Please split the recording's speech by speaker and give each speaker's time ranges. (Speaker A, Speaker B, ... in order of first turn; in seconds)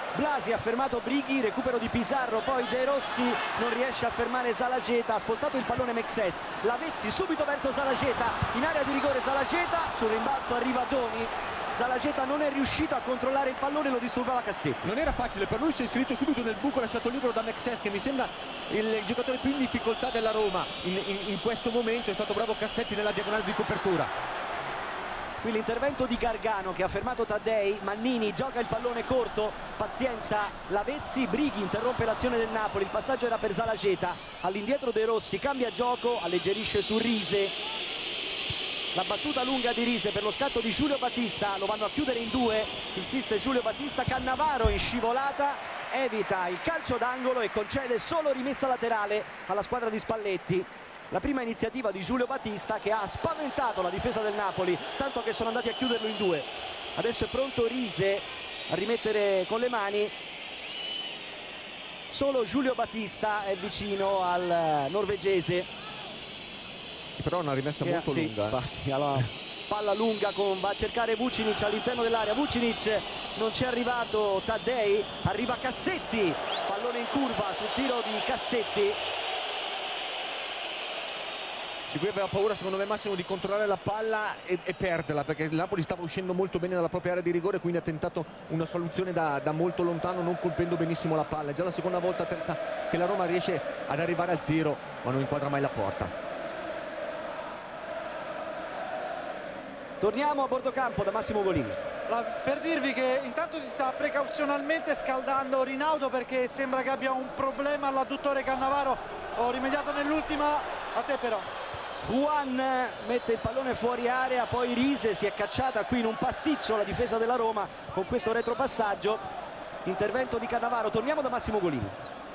Speaker A: 0.1-14.9, 25.4-37.5, 38.9-60.1, 62.1-65.7, 67.8-79.0, 100.0-101.8, 112.0-119.2, 119.8-122.0
Speaker B: 14.8-24.1, 67.2-68.6, 81.9-96.1
Speaker C: 102.1-111.5